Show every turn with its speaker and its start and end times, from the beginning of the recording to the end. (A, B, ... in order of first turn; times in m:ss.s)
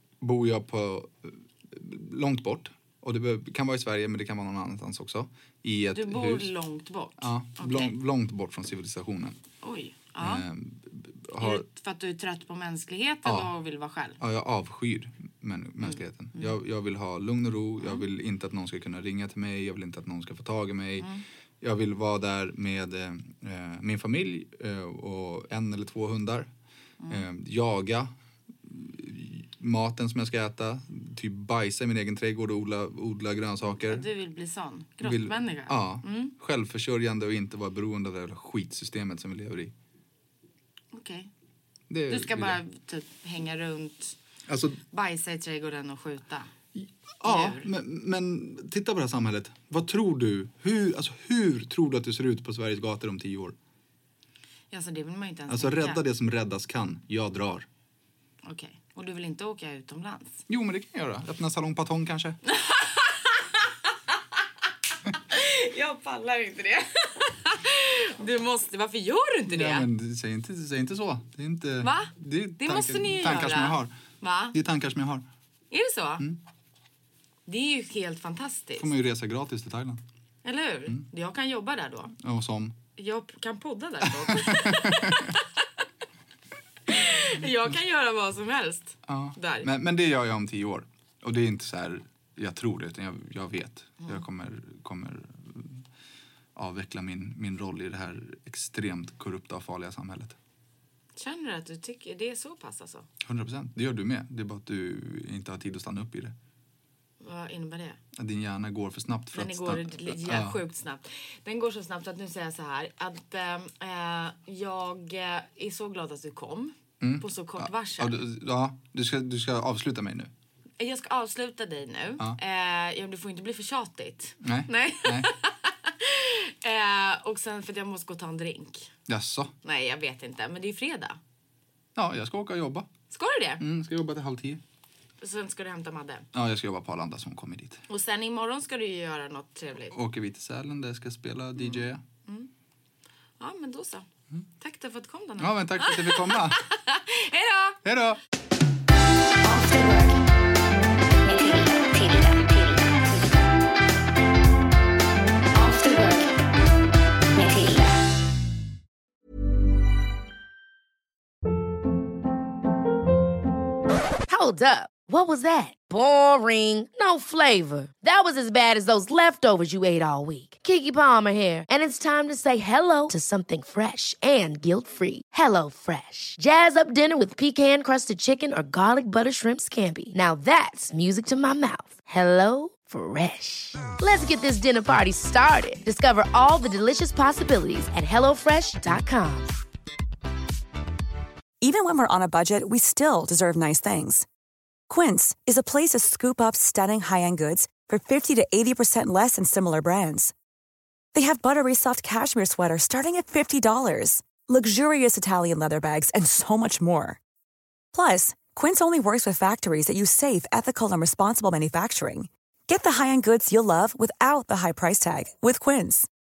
0:00.2-0:06.5 A
0:05.9-0:07.9 B
0:07.2-0:09.4 A
0:09.6-0:10.4 B
0:10.2-0:11.6 A
0:11.4-0:14.2 B
0:13.2-0:13.5 A
0:14.2-0:21.1 A
0:15.8-0:16.6 B
0:21.6-0:26.5 A
0:27.1-0:28.1 A
0:28.6-0:34.1 A
0:33.8-0:36.3 B
0:35.0-0:39.7 A
0:40.9-0:41.3 B
0:41.9-0:42.6 A
0:42.1-0:44.2 B
0:44.5-0:44.8 A
0:44.9-0:46.5 B
0:46.8-0:53.6 A
0:47.2-0:47.7 B
0:54.7-0:56.0 B
0:55.5-0:57.7 A
0:58.4-1:00.4 B
1:00.5-1:02.4 A
1:02.5-1:03.7 B
1:05.1-1:09.9 B
1:09.5-1:13.9 A
1:11.8-1:14.5 B
1:14.5-1:15.2 A
1:15.7-1:16.2 B
1:17.5-1:18.9 B
1:18.8-1:20.0 A
1:20.4-1:22.1 B
1:22.2-1:22.8 A
1:23.0-1:25.4 B
1:24.0-1:25.4 A
1:26.9-1:29.7 B
1:29.1-1:35.8 A
1:36.5-1:40.4 A
1:41.2-1:43.1 B
1:43.2-1:46.3 A
1:47.2-1:48.0 B
1:48.2-1:50.6 A
1:49.3-1:58.2 B
1:57.0-2:00.3 A
2:00.8-2:08.9 B
2:04.4-2:05.3 A
2:09.1-2:09.5 A
2:09.6-2:11.2 B
2:12.0-2:12.9 A
2:13.1-2:13.6 B
2:13.6-2:14.6 A
2:15.2-2:16.3 B
2:16.3-2:17.8 A
2:17.9-2:19.9 B
2:19.9-2:22.0 A
2:21.6-2:22.5 B
2:23.4-2:24.1 B
2:24.6-2:27.8 B
2:25.4-2:26.6 A
2:27.8-2:28.2 A
2:29.4-2:30.2 C
2:31.2-2:33.5 C
2:35.5-2:36.4 C
2:37.3-2:38.1 C
2:44.3-3:09.5 D
3:11.6-3:14.2 E
3:14.9-3:20.3 E
3:21.1-3:27.2 E
3:27.9-3:36.1 E